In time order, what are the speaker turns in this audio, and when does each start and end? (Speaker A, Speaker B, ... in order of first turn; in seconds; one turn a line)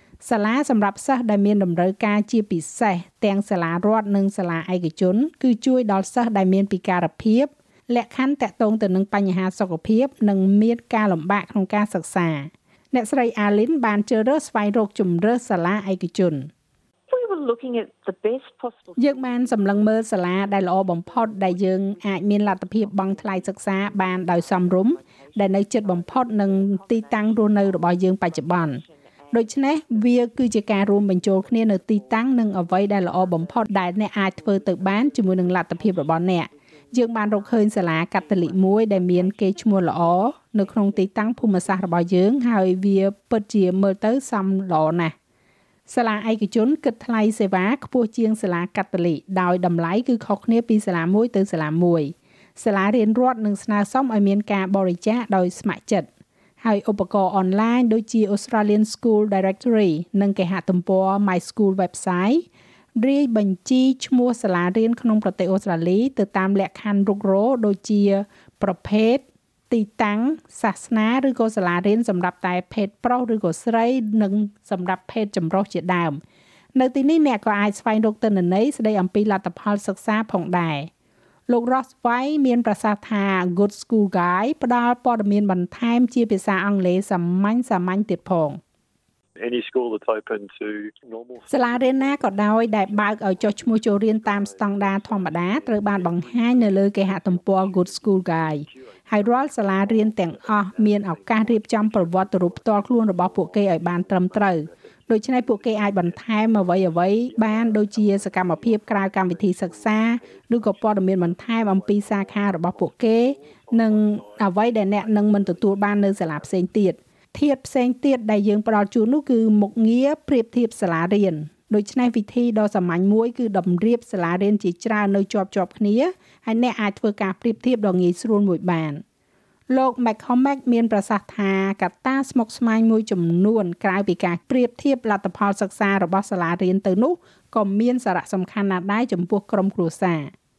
Speaker A: 0.2-16.5
Speaker B: 17.1-31.9
Speaker A: 19.0-45.1
Speaker B: 32.4-41.0
Speaker A: 45.9-56.1
Speaker A: 56.6-62.4
Speaker A: 63.0-76.2
Speaker A: 76.8-80.9
Speaker A: 81.5-88.6
Speaker C: 89.4-116.5
Speaker A: 91.5-129.0
Speaker A: 129.7-140.3